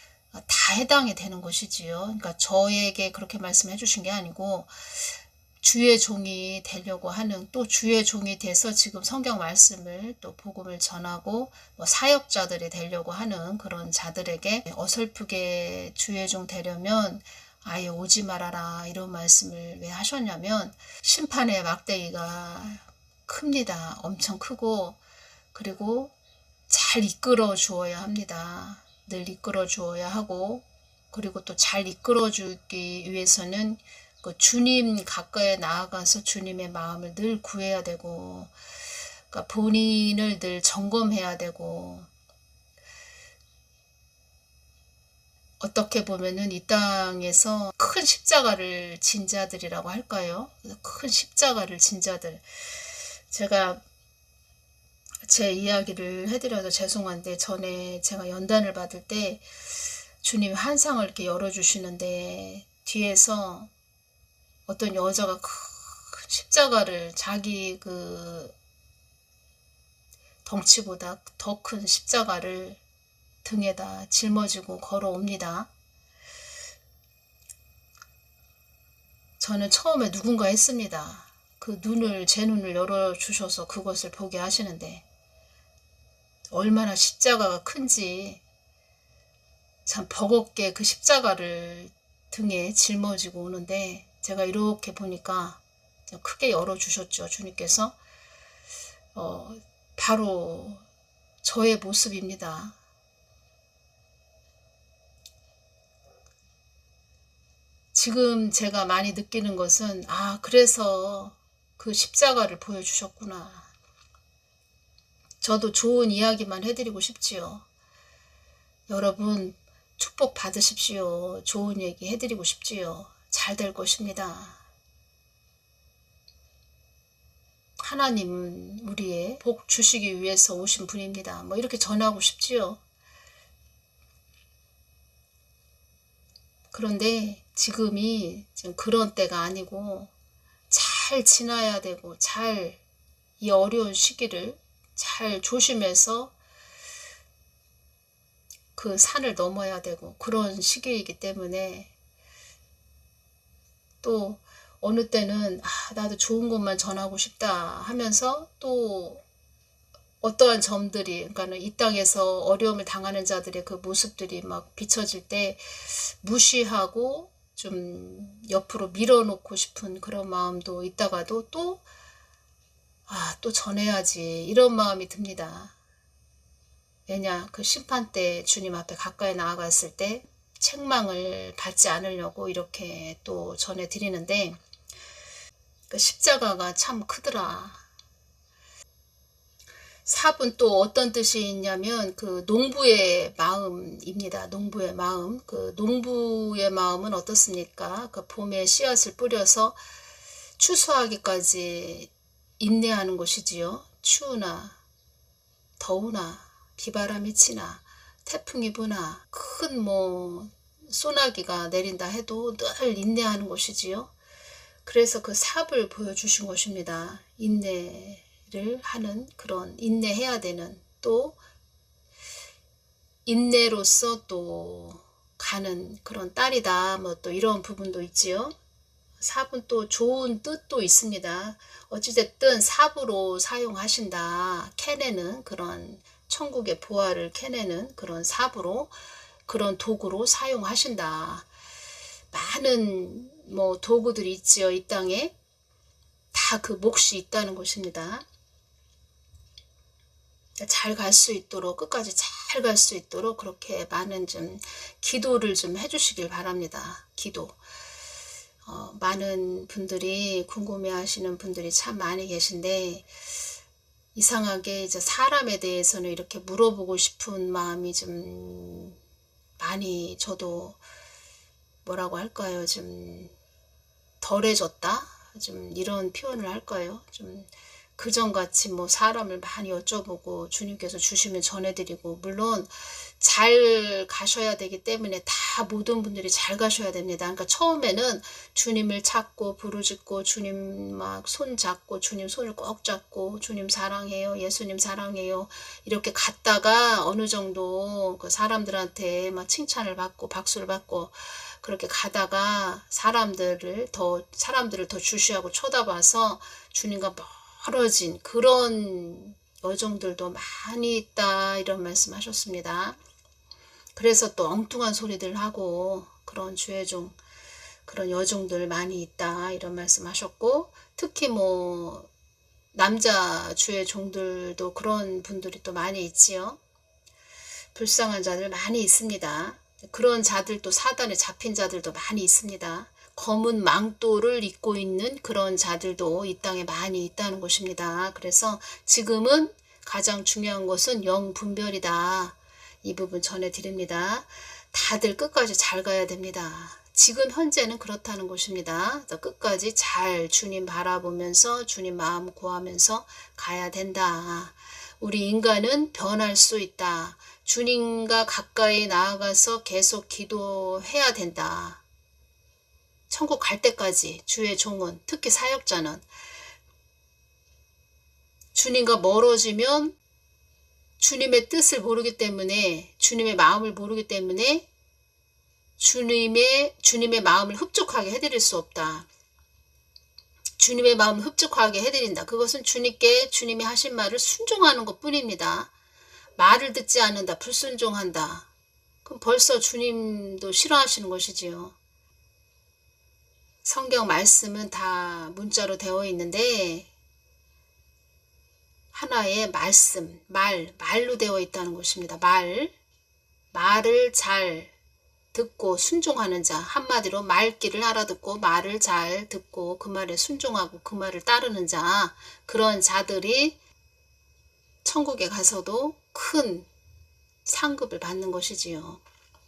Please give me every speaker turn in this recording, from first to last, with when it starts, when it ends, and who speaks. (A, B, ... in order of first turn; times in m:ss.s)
0:00.3-0:25.0 A
0:25.5-0:26.1 A
0:26.7-0:38.5 A
0:39.3-0:42.1 A
0:45.6-0:53.8 A
0:55.3-0:59.4 A
1:00.2-1:03.7 A
1:04.7-1:08.5 A
1:10.4-1:12.8 A
1:13.4-1:15.7 A
1:19.4-1:25.0 A
1:26.5-1:28.4 A
1:29.9-1:38.0 A
1:39.1-1:40.8 A
1:41.4-1:42.8 A
1:47.9-1:53.7 A
1:55.4-1:57.6 A
1:58.9-2:04.6 A
2:07.8-2:12.8 A
2:16.7-2:20.1 A
2:20.7-2:22.8 A
2:23.4-2:26.3 A
2:28.8-2:31.9 A
2:34.0-2:39.2 A
2:40.2-2:51.8 A
2:53.1-2:55.7 A
2:57.1-3:04.6 A
3:05.9-3:07.8 A
3:10.1-3:19.8 A
3:20.6-3:24.8 A
3:25.8-3:34.1 A
3:34.8-3:41.4 A
3:43.3-3:48.5 A
3:49.2-3:58.9 A
3:59.5-4:01.5 A
4:02.3-4:05.3 A
4:06.3-4:08.2 A
4:10.6-4:17.6 A
4:18.6-4:23.1 A
4:24.2-4:29.0 A
4:29.6-4:30.8 A
4:31.8-4:33.3 A
4:34.2-5:13.0 A
5:14.0-5:17.2 A
5:17.9-5:22.1 A
5:22.7-5:26.6 A
5:27.7-6:01.8 A
6:03.1-6:06.0 A
6:08.6-6:10.0 A
6:11.0-6:14.7 A
6:15.8-6:19.1 A
6:20.6-6:25.7 A
6:26.4-6:28.5 A
6:29.0-6:31.8 A
6:33.6-6:36.9 A
6:38.9-6:42.7 A
6:43.5-6:44.7 A
6:45.3-6:53.6 A
6:54.8-6:56.7 A
6:57.4-6:59.0 A